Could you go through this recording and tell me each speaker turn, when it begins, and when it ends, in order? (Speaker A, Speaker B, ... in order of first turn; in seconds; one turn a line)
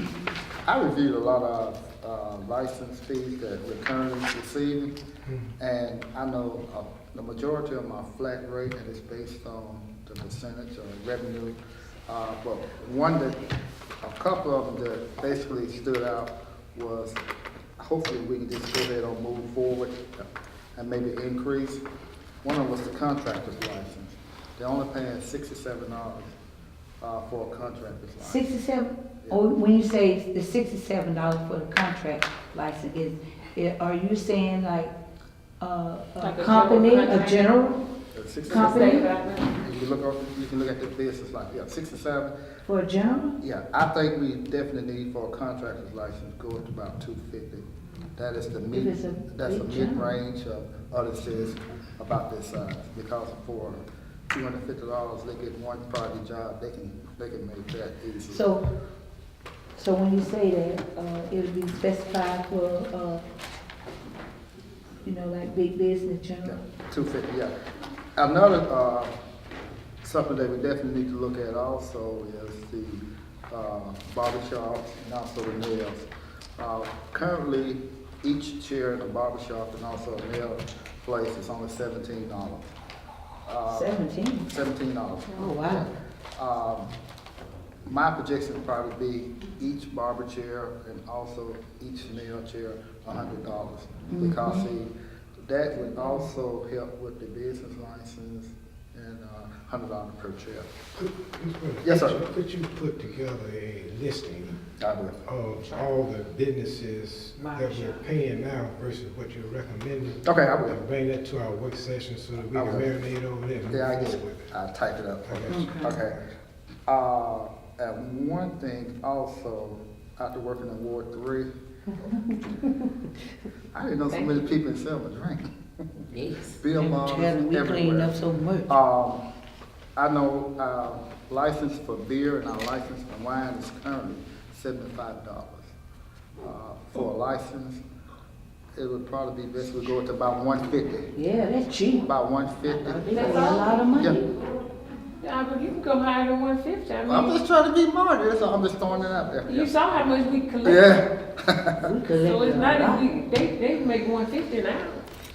Speaker A: 0.7-4.9
Speaker B: 5.3-5.5
Speaker A: 5.6-11.6
Speaker A: 12.1-13.4
Speaker A: 14.0-17.2
Speaker A: 17.8-21.8
Speaker A: 22.4-26.3
Speaker A: 27.0-28.5
Speaker C: 28.2-34.9
Speaker C: 35.6-37.8
Speaker D: 36.2-37.5
Speaker A: 38.1-39.0
Speaker D: 38.4-39.5
Speaker C: 38.5-39.1
Speaker A: 39.6-42.3
Speaker C: 42.6-43.4
Speaker A: 43.4-58.4
Speaker C: 48.7-50.1
Speaker C: 58.3-58.6
Speaker C: 59.7-63.2
Speaker C: 65.0-66.6
Speaker A: 66.4-67.5
Speaker A: 68.2-69.1
Speaker A: 70.0-76.0
Speaker A: 76.6-82.7
Speaker A: 83.5-86.9
Speaker C: 83.7-84.5
Speaker C: 85.4-85.8
Speaker A: 87.8-94.9
Speaker C: 94.1-94.7
Speaker A: 95.4-100.7
Speaker B: 100.9-104.6
Speaker A: 101.8-102.2
Speaker A: 104.8-105.2
Speaker B: 105.2-114.4
Speaker D: 105.6-105.9
Speaker D: 107.4-108.0
Speaker A: 110.2-110.8
Speaker A: 112.5-112.9
Speaker A: 113.7-116.2
Speaker B: 115.2-116.0
Speaker C: 115.5-116.0
Speaker A: 116.9-121.5
Speaker A: 123.7-126.0
Speaker D: 124.1-124.5
Speaker D: 126.1-126.6
Speaker A: 126.6-128.2
Speaker C: 126.7-128.7
Speaker A: 128.7-129.2
Speaker A: 129.9-135.7
Speaker A: 136.4-137.8
Speaker A: 138.7-141.1
Speaker C: 141.1-142.1
Speaker A: 142.0-144.2
Speaker C: 142.7-144.3
Speaker D: 143.1-144.2
Speaker D: 145.2-147.4
Speaker A: 147.1-149.7
Speaker D: 149.4-151.0
Speaker A: 150.6-151.9
Speaker C: 151.8-153.1
Speaker D: 152.1-155.1